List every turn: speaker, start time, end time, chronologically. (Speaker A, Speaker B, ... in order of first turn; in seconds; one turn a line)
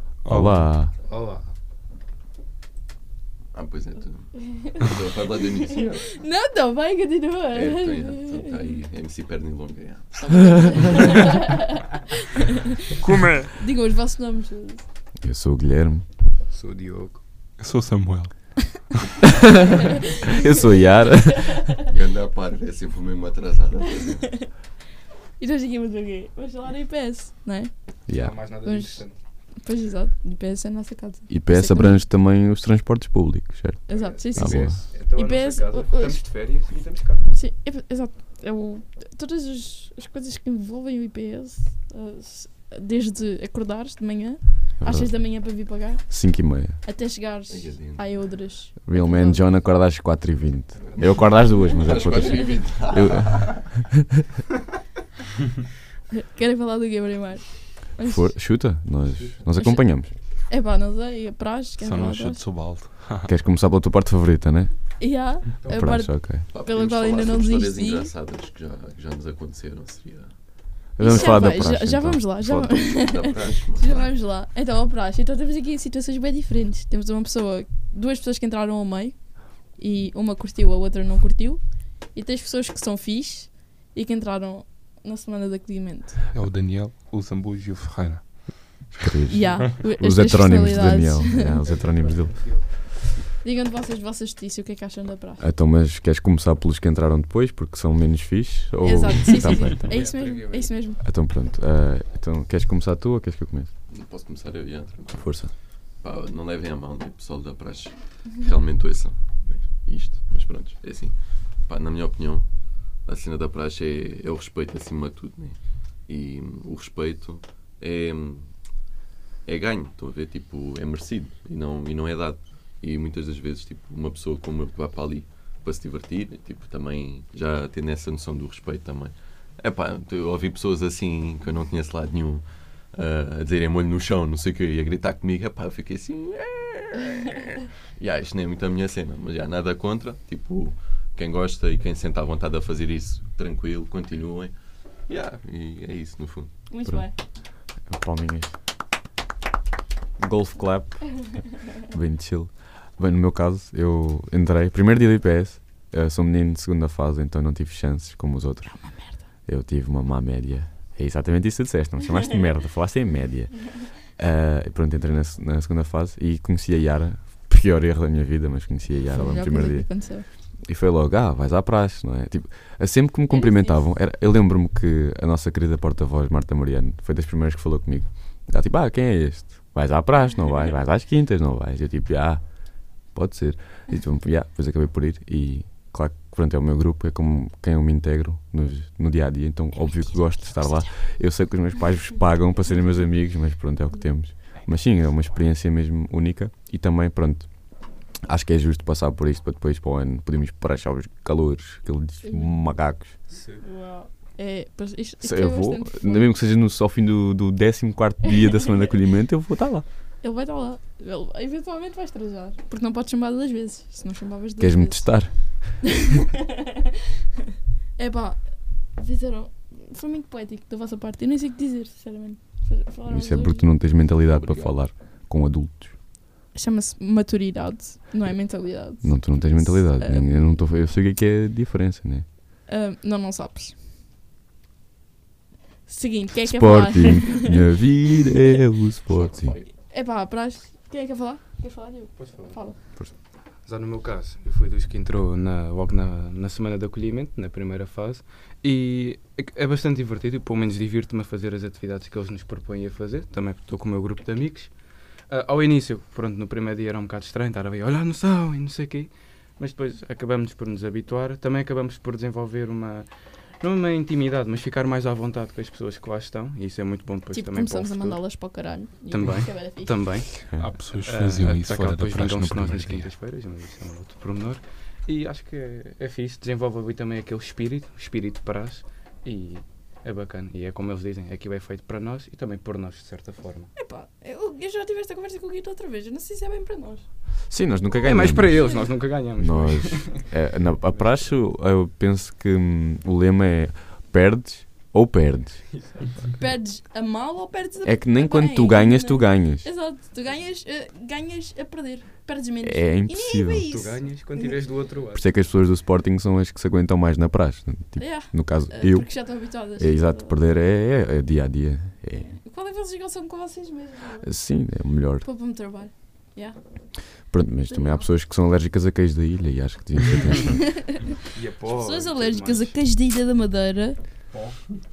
Speaker A: 0.2-0.7
Speaker B: 0.3-0.9
Speaker C: 1.0-1.5
Speaker D: 3.5-6.2
Speaker E: 4.4-8.7
Speaker D: 7.5-11.6
Speaker E: 10.5-12.6
Speaker A: 13.0-13.6
Speaker E: 13.5-14.8
Speaker B: 15.2-16.0
Speaker C: 16.5-17.2
Speaker A: 17.6-18.9
Speaker E: 19.8-21.8
Speaker B: 20.3-21.7
Speaker D: 21.7-24.4
Speaker E: 25.4-32.0
Speaker B: 28.1-28.4
Speaker C: 28.1-29.2
Speaker B: 31.3-34.8
Speaker E: 33.9-36.2
Speaker C: 33.9-37.2
Speaker E: 37.3-49.5
Speaker B: 44.8-45.4
Speaker B: 46.1-46.8
Speaker D: 47.5-48.4
Speaker B: 48.8-54.0
Speaker C: 50.8-51.9
Speaker D: 51.8-53.5
Speaker E: 51.8-52.7
Speaker E: 56.1-58.4
Speaker B: 58.0-60.1
Speaker C: 59.1-59.5
Speaker E: 59.5-62.4
Speaker A: 61.8-63.3
Speaker B: 63.2-64.7
Speaker E: 65.0-68.1
Speaker C: 65.6-65.9
Speaker B: 65.6-66.4
Speaker D: 66.5-70.3
Speaker B: 71.0-72.8
Speaker E: 71.0-86.2
Speaker D: 72.7-74.1
Speaker A: 86.3-89.2
Speaker B: 89.0-92.7
Speaker E: 89.3-91.6
Speaker C: 91.3-92.7
Speaker E: 93.4-95.4
Speaker B: 95.4-100.1
Speaker E: 98.8-101.0
Speaker C: 99.3-100.8
Speaker B: 101.0-103.7
Speaker D: 103.9-118.6
Speaker B: 105.1-105.5
Speaker D: 119.4-144.5
Speaker D: 145.1-146.5
Speaker E: 146.7-147.1
Speaker B: 147.8-148.5
Speaker B: 150.2-203.1
Speaker E: 158.7-159.2
Speaker E: 169.1-170.3
Speaker E: 173.3-173.8
Speaker E: 202.2-202.5
Speaker C: 203.3-203.6
Speaker E: 203.6-206.3
Speaker B: 205.2-209.8
Speaker E: 210.2-215.7
Speaker B: 214.6-215.8
Speaker E: 217.9-223.7
Speaker B: 223.1-226.0
Speaker D: 224.3-224.8
Speaker E: 226.5-230.6
Speaker B: 229.0-232.2
Speaker E: 232.7-233.8
Speaker E: 235.8-237.6
Speaker B: 236.4-239.5
Speaker D: 239.1-239.7
Speaker E: 239.8-242.8
Speaker C: 242.2-243.0
Speaker C: 243.6-268.2
Speaker E: 267.3-270.0
Speaker C: 269.1-283.7
Speaker A: 270.5-273.1
Speaker E: 283.8-287.0
Speaker B: 287.5-295.8
Speaker C: 288.0-290.4
Speaker E: 288.2-288.9
Speaker C: 290.9-291.4
Speaker C: 295.9-296.2
Speaker E: 296.4-304.6
Speaker B: 297.8-299.7
Speaker B: 302.6-303.7
Speaker C: 303.7-305.3
Speaker B: 305.1-312.3
Speaker E: 307.9-310.4
Speaker E: 312.2-314.4
Speaker B: 314.2-315.2
Speaker E: 315.2-318.1
Speaker B: 317.3-320.9
Speaker E: 320.5-321.1
Speaker C: 321.3-322.7
Speaker E: 321.6-324.0
Speaker C: 324.3-324.6